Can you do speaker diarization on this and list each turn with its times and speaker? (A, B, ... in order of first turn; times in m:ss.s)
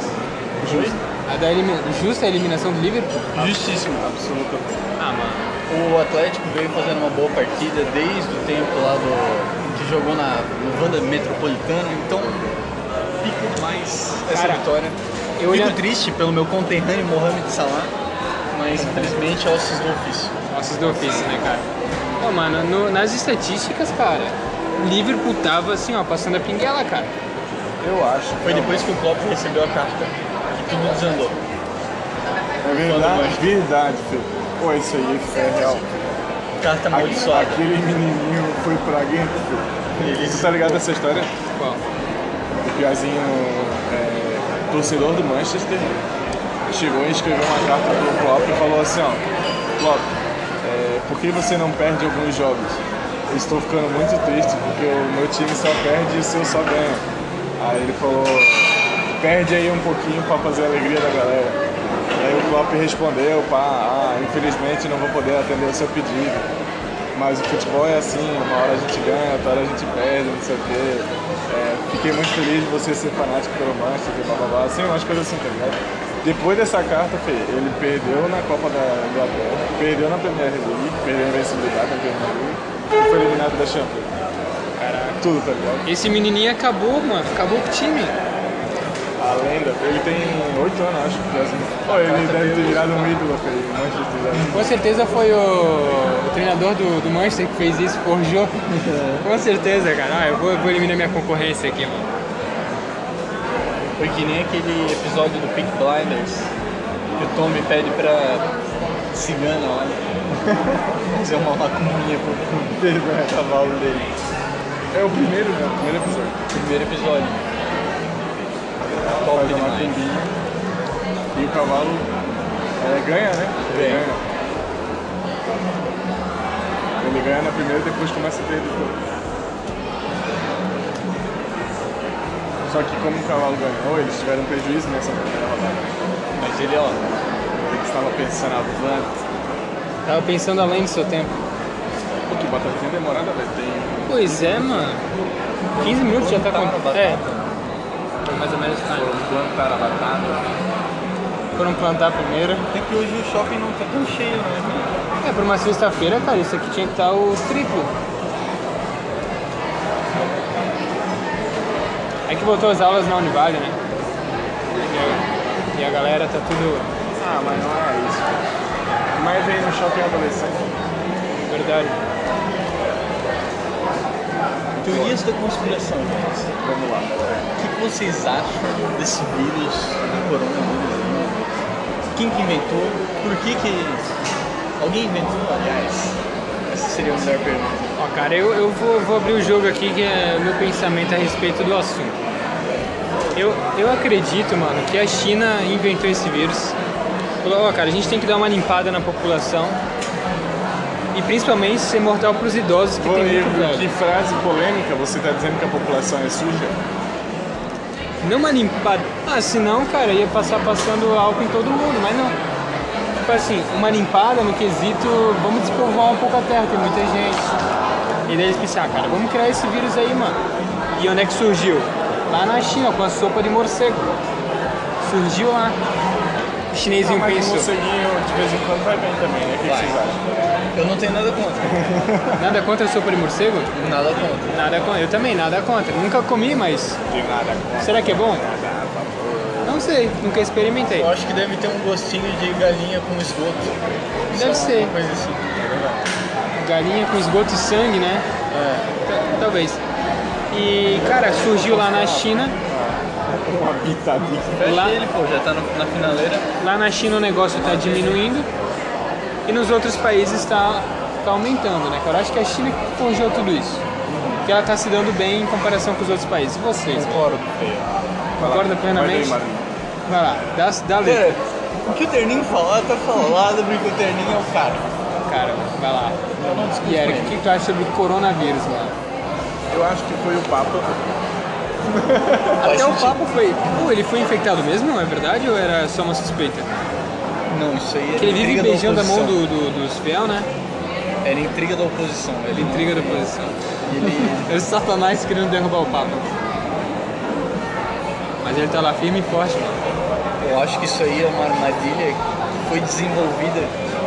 0:00.6-0:01.0 A
0:00.6-0:01.0 B
0:01.2-0:03.4 C
0:03.4-0:04.1 B
0:04.0-0:04.8 A
0:05.0-0:05.5 C
0:05.7-0:12.5 B
0:13.2-0:17.9 B
0:14.3-0:14.6 C
0:15.4-0:15.8 C
0:18.5-0:20.3 B
0:18.8-0:19.1 A
0:20.5-0:21.7 C
0:22.2-0:27.1 C
0:27.8-0:29.0 A
0:28.4-0:31.4 B
0:32.6-0:36.0 A
0:32.8-0:33.5 B
0:36.6-0:37.6 B
0:36.9-0:41.3 A
0:40.0-0:40.8 B
0:41.6-0:41.8 C
0:42.6-0:46.0 A
0:46.7-0:49.2 A
0:49.8-0:57.0 A
0:57.6-1:01.6 A
1:02.1-1:06.5 A
1:07.1-1:24.1 A
1:24.8-1:25.2 C
1:25.2-1:25.9 A
1:25.8-1:28.2 C
1:29.2-1:34.7 A
1:31.9-1:33.1 B
1:34.3-1:34.6 B
1:34.5-1:42.1 C
1:38.7-1:39.2 B
1:44.0-1:46.5 B
1:47.2-1:48.5 B
1:49.1-1:50.0 B
1:50.4-1:50.9 A
1:51.1-1:54.1 B
1:52.8-1:53.4 A
1:54.9-1:56.4 A
1:56.5-1:57.4 B
1:59.2-2:00.0 B
1:59.2-2:00.4 A
2:01.3-2:02.1 A
2:02.8-2:04.2 A
2:03.7-2:04.1 B
2:07.0-2:09.0 A
2:12.6-2:15.9 A
2:16.4-2:17.3 B
2:17.6-2:19.2 A
2:20.0-2:21.4 C
2:22.3-2:24.8 A
2:24.1-2:25.0 C
2:25.7-2:27.5 B
2:25.8-2:27.2 C
2:28.2-2:29.2 C
2:28.9-2:30.5 A
2:31.6-2:32.7 C
2:32.7-2:35.0 B
2:35.2-2:37.9 C
2:40.1-2:40.6 A
2:42.3-2:43.8 C
2:44.8-2:45.2 C
2:45.7-2:46.9 C
2:47.2-2:48.5 A
2:49.1-2:50.8 A
2:51.5-2:52.0 C
2:54.8-2:55.2 A
2:54.8-2:56.5 B
2:56.6-2:57.5 A
2:57.6-3:01.5 B
3:02.1-3:04.0 B
3:04.8-3:07.9 B
3:08.0-3:12.2 C
3:13.4-3:16.8 C
3:17.4-3:19.8 C
3:21.1-3:23.9 C
3:23.0-3:26.8 A
3:28.2-3:32.4 C
3:33.2-3:37.5 C
3:38.3-3:40.4 C
3:40.9-3:44.1 C
3:45.0-3:45.8 C
3:46.7-3:47.7 C
3:47.0-3:50.2 A
3:49.6-3:50.0 B
3:50.7-3:51.8 B
3:51.7-3:52.5 A
3:52.4-3:53.7 C
3:53.7-3:54.6 B
3:54.5-3:57.0 C
3:57.1-3:59.9 A
3:57.8-3:58.4 C
3:59.6-4:01.1 C
4:01.0-4:03.7 B
4:04.3-4:06.0 B
4:04.3-4:04.9 C
4:06.5-4:09.8 C
4:10.5-4:12.6 C
4:11.3-4:12.3 B
4:12.7-4:14.6 A
4:14.5-4:16.5 B
4:14.6-4:15.0 C
4:16.6-4:18.5 C
4:17.6-4:18.2 B
4:19.5-4:23.8 C
4:24.1-4:24.4 B
4:24.4-4:27.2 C
4:26.9-4:27.9 B
4:28.4-4:29.7 A
4:28.4-4:29.4 C
4:30.1-4:31.3 C
4:31.0-4:34.9 B
4:35.2-4:36.2 C
4:36.4-4:37.4 B
4:36.8-4:39.0 C
4:39.7-4:41.2 A
4:41.8-4:42.6 A
4:42.6-4:43.2 B
4:42.6-4:46.8 C
4:47.5-4:49.4 B
4:48.2-4:50.5 C
4:51.2-4:53.3 B
4:52.5-4:56.3 C
4:53.8-4:54.5 B
4:58.4-4:59.8 C
5:00.4-5:03.8 B